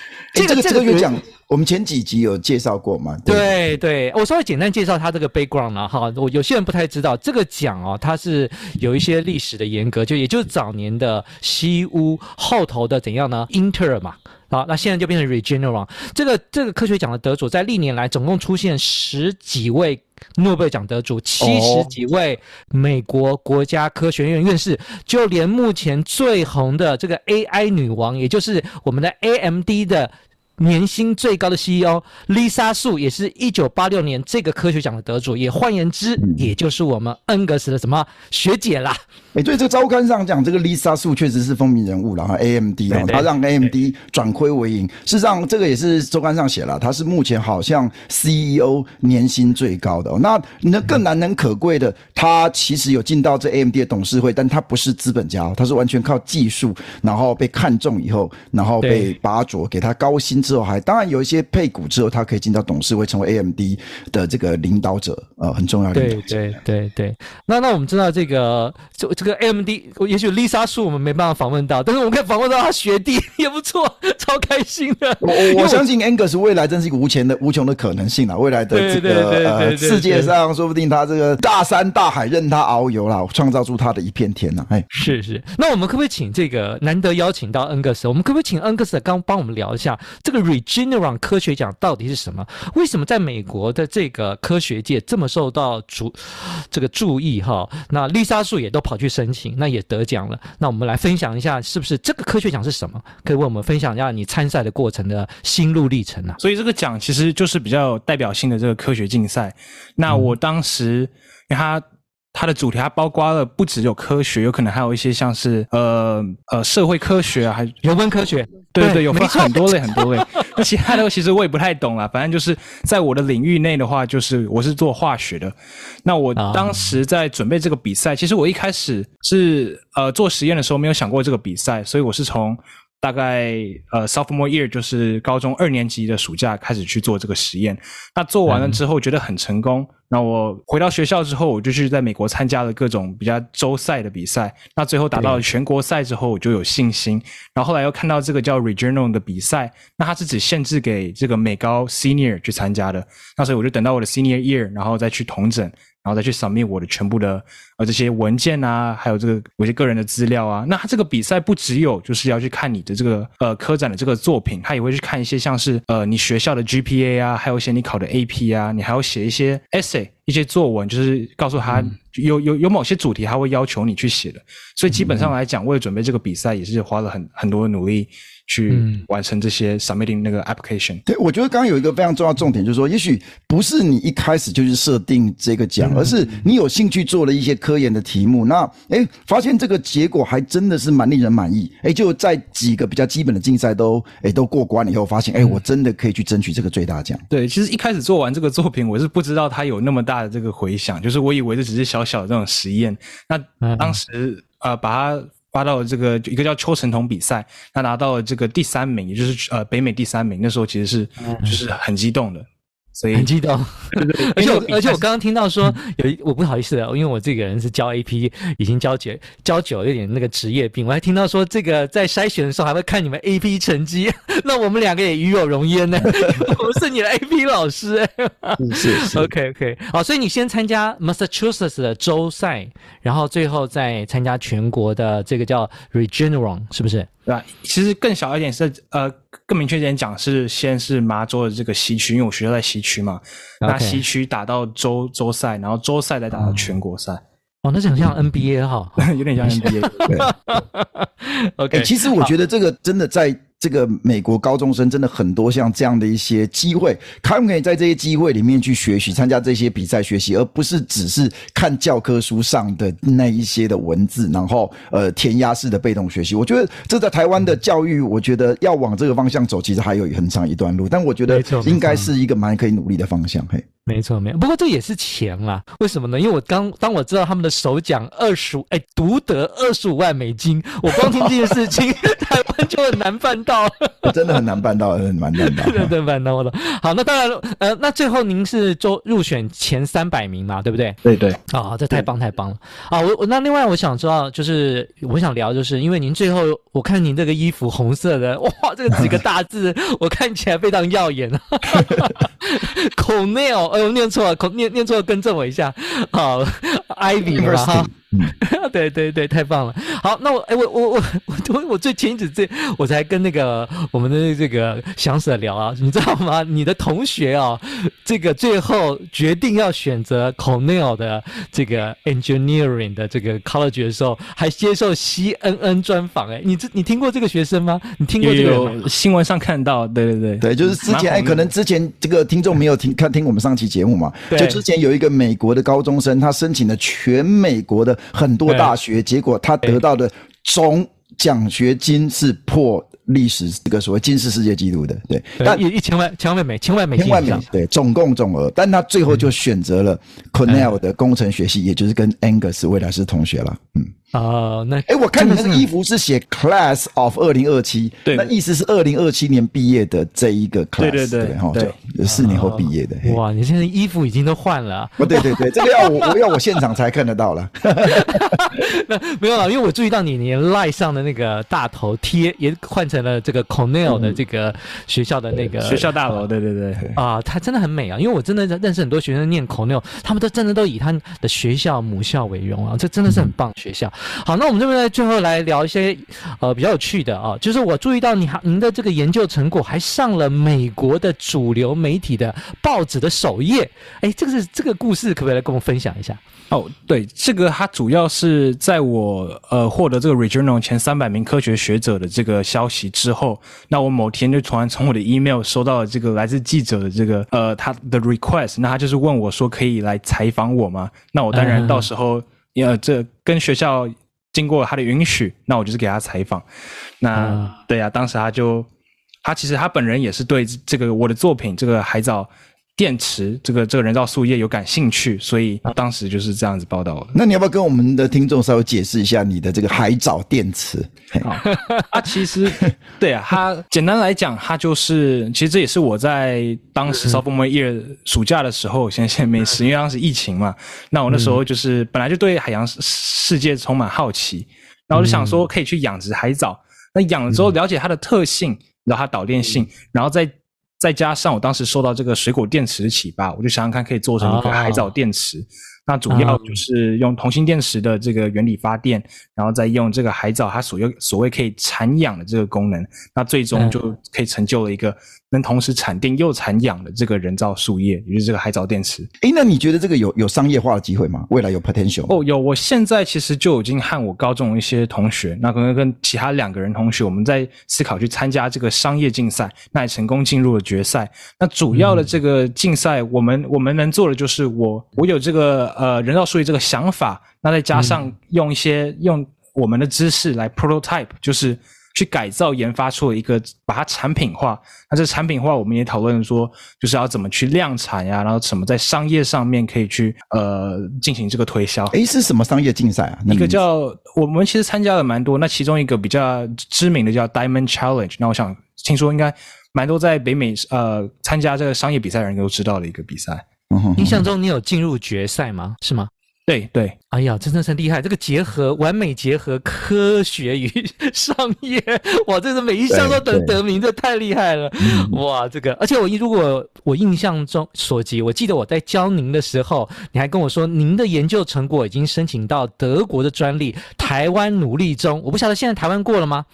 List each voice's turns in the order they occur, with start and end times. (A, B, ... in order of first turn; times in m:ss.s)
0:00.3-0:01.1 A
0:00.3-0:03.6 B
0:03.3-0:39.0 A
0:21.4-0:21.9 B
0:39.3-1:06.4 B
0:42.9-0:43.2 C
0:58.8-0:59.1 A
1:05.9-1:15.8 A
1:15.2-1:24.8 B
1:18.7-1:20.3 A
1:24.9-1:46.4 A
1:46.4-1:51.8 C
1:52.3-1:57.7 C
1:57.8-2:00.4 A
1:58.7-3:01.0 C
2:06.4-2:07.0 A
2:18.5-2:18.8 A
2:25.1-2:25.4 A
2:51.6-2:51.9 A
2:58.7-2:59.0 A
3:01.1-3:17.2 B
3:05.8-3:06.1 A
3:17.3-3:33.3 C
3:23.6-3:24.0 A
3:33.1-3:57.1 A
3:33.9-3:35.0 C
3:48.6-3:49.3 B
3:57.2-4:07.2 C
4:03.6-4:04.0 A
4:06.3-4:06.7 A
4:07.6-4:12.3 A
4:09.0-4:10.1 C
4:11.7-4:33.6 B
4:31.3-4:32.1 A
4:33.8-4:44.1 A
4:44.0-4:45.9 B
4:45.4-4:51.0 A
4:51.0-4:51.4 C
4:51.5-5:07.9 A
5:07.3-5:08.3 B
5:08.4-5:28.9 A
5:28.2-5:31.5 C
5:30.4-5:45.6 B
5:34.3-5:34.6 A
5:38.5-5:38.7 A
5:45.4-5:47.4 A
5:47.0-5:53.9 B
5:50.5-5:50.7 A
5:54.1-5:55.6 A
5:54.9-6:03.2 B
5:58.0-5:58.3 C
6:00.8-6:01.8 C
6:02.0-6:06.1 A
6:05.0-6:08.4 B
6:07.8-6:15.9 A
6:13.9-6:14.2 B
6:15.6-6:16.9 C
6:16.9-6:36.2 A
6:36.5-6:56.4 C
6:51.3-6:51.9 A
6:57.0-6:58.7 C
6:57.1-6:57.5 A
6:59.2-7:07.2 C
7:07.1-7:11.3 B
7:11.2-7:49.1 C
7:11.4-7:11.9 A
7:16.9-7:17.2 A
7:21.1-7:21.4 A
7:24.9-7:25.4 A
7:34.2-7:34.9 A
7:36.1-7:36.6 A
7:49.2-7:52.1 B
7:52.1-8:21.9 C
8:01.7-8:02.1 A
8:07.7-8:08.0 A
8:21.9-8:23.6 B
8:23.3-8:33.4 C
8:33.7-8:34.2 B
8:34.0-8:36.1 A
8:36.5-8:36.9 C
8:37.1-8:56.4 A
8:42.9-8:43.6 B
8:44.8-8:45.2 B